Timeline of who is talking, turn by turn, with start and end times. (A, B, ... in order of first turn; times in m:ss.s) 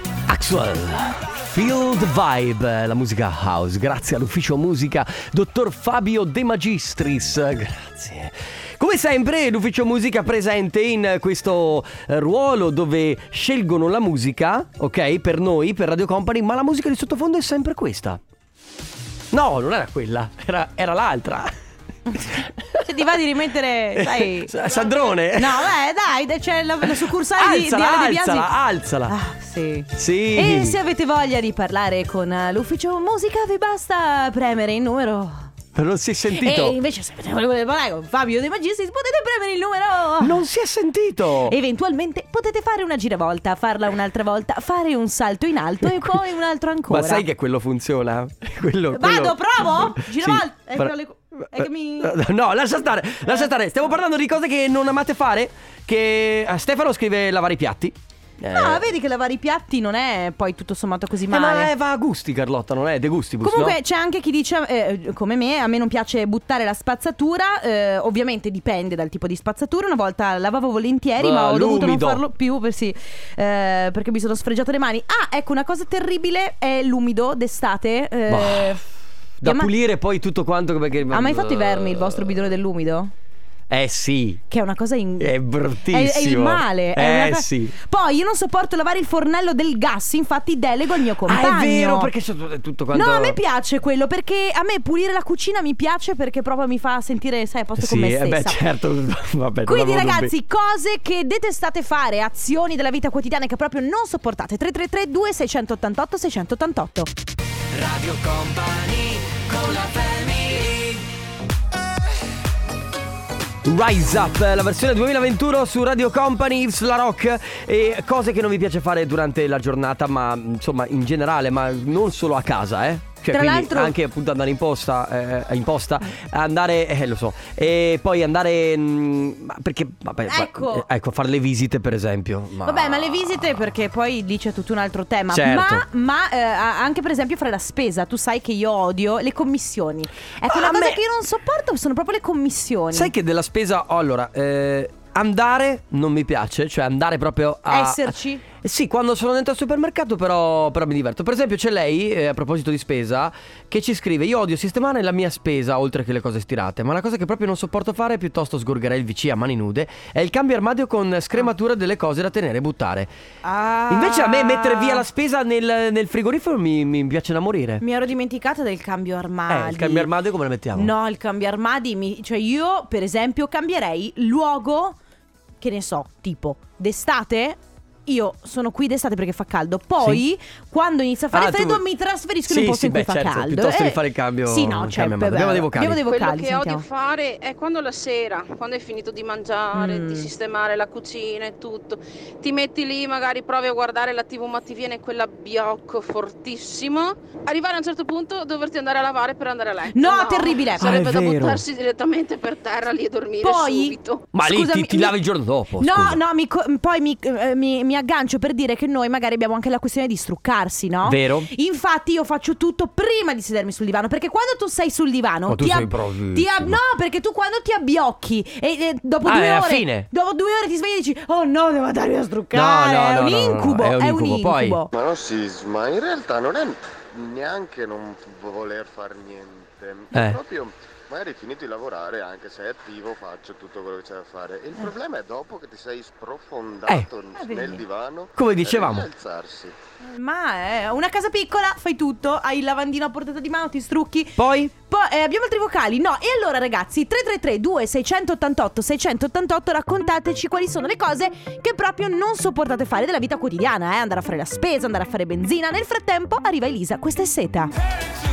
0:00.3-0:18.2 A
0:19.3-0:21.5 A
0:22.1-0:24.6 B
0:22.3-0:23.1 A
0:24.0-0:25.7 A
0:25.3-0:28.5 B
0:26.8-0:29.1 A
0:29.1-0:35.5 B
0:29.9-0:30.8 A
0:35.7-0:36.8 A
0:36.3-0:40.4 B
0:40.2-0:41.6 A
0:41.5-0:47.2 B
0:45.8-0:46.1 A
0:46.9-0:58.8 A
0:48.9-0:52.2 B
0:58.5-1:01.7 B
1:01.3-1:03.8 A
1:03.4-1:18.8 B
1:11.2-1:12.2 A
1:18.3-1:18.8 A
1:19.4-1:22.3 A
1:19.4-1:19.7 B
1:21.1-1:23.1 B
1:23.7-1:24.4 A
1:24.5-1:25.4 B
1:25.2-1:27.7 A
1:25.9-1:32.1 B
1:31.2-1:33.4 A
1:32.9-1:38.6 B
1:37.8-1:40.3 A
1:39.6-1:47.1 B
1:47.7-1:51.1 C
1:53.6-2:13.3 A
2:03.3-2:04.0 B
2:10.3-2:10.8 B
2:12.6-2:23.1 B
2:15.3-2:15.8 A
2:20.4-2:21.0 A
2:22.9-2:43.1 A
2:27.7-2:28.4 B
2:43.4-2:45.0 B
2:43.9-2:47.8 A
2:47.8-2:50.1 B
2:49.5-2:50.9 A
2:50.8-2:55.0 B
2:55.6-3:06.8 B
3:01.3-3:01.8 A
3:02.5-3:06.0 A
3:06.0-3:24.2 D
3:09.7-3:10.3 B
3:19.9-3:21.1 B
3:20.8-3:21.6 A
3:23.4-3:25.2 B
3:24.3-3:26.2 A
3:25.8-3:44.9 B
3:31.0-3:31.5 A
3:35.5-3:36.8 A
3:39.2-3:40.1 A
3:42.5-3:44.8 A
3:44.9-3:59.7 E
3:50.1-3:50.4 A
3:57.3-3:57.8 B
3:58.4-3:59.1 A
4:00.0-4:17.7 B
4:04.4-4:04.7 A